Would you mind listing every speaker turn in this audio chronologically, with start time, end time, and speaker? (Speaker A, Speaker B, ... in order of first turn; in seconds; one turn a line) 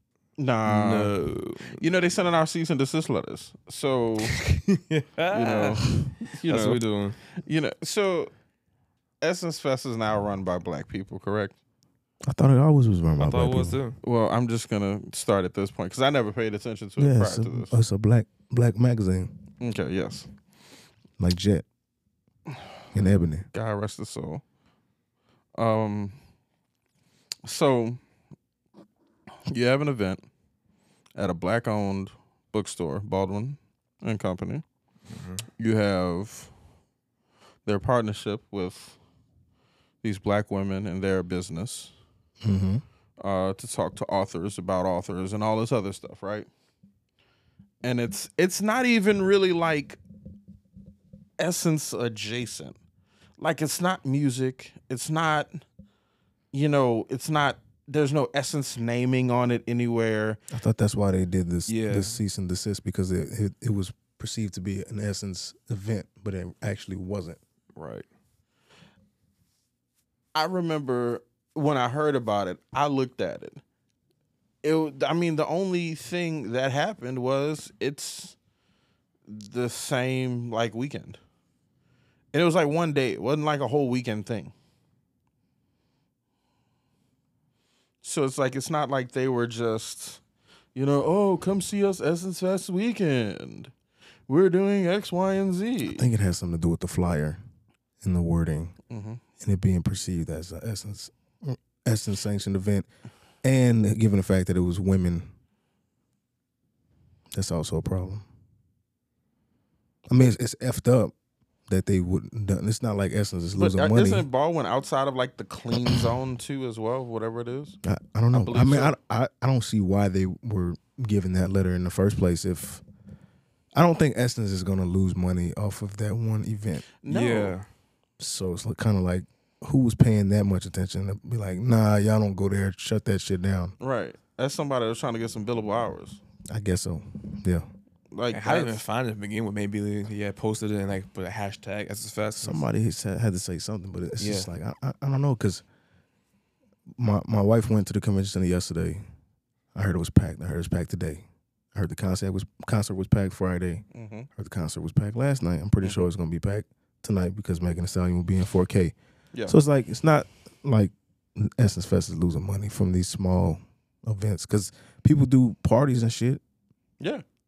Speaker A: 0.4-1.2
Speaker B: 0.7-1.8
Speaker A: 1.7-4.4
Speaker B: 4.3-7.2
Speaker A: 5.3-8.3
Speaker A: 9.2-11.6
Speaker C: 12.2-13.8
Speaker B: 13.2-14.0
Speaker A: 14.0-17.8
Speaker C: 17.0-19.3
Speaker A: 19.6-20.3
Speaker C: 21.2-21.6
Speaker C: 22.9-23.5
Speaker A: 23.5-24.4
Speaker A: 25.5-26.2
Speaker A: 27.4-28.0
Speaker A: 29.5-30.2
Speaker A: 31.1-34.6
Speaker B: 35.1-35.4
Speaker A: 35.6-36.5
Speaker A: 37.6-39.0
Speaker A: 40.0-41.9
Speaker C: 42.4-42.8
Speaker A: 43.2-46.5
Speaker A: 47.8-50.0
Speaker A: 51.4-52.8
Speaker A: 53.4-55.6
Speaker A: 56.5-60.4
Speaker C: 60.5-67.4
Speaker B: 61.7-62.2
Speaker B: 67.8-68.0
Speaker A: 70.3-73.6
Speaker A: 74.6-78.3
Speaker A: 79.3-81.2
Speaker A: 82.3-84.5
Speaker A: 88.0-90.2
Speaker A: 90.7-93.7
Speaker A: 94.3-96.1
Speaker C: 95.8-97.4
Speaker C: 98.0-98.8
Speaker A: 98.9-99.2
Speaker C: 99.4-102.9
Speaker C: 103.4-105.3
Speaker C: 107.3-108.2
Speaker C: 110.1-111.1
Speaker C: 111.7-114.2
Speaker A: 113.5-117.8
Speaker C: 117.8-122.8
Speaker A: 118.3-118.9
Speaker C: 123.7-126.8
Speaker A: 127.0-127.5
Speaker B: 127.1-127.7
Speaker C: 128.2-133.7
Speaker A: 133.8-136.2
Speaker C: 136.5-137.7
Speaker A: 138.1-138.8
Speaker B: 138.3-142.6
Speaker C: 142.4-145.6
Speaker B: 144.2-144.5
Speaker C: 146.9-149.0
Speaker C: 149.7-158.9
Speaker A: 153.9-154.3
Speaker C: 159.5-166.4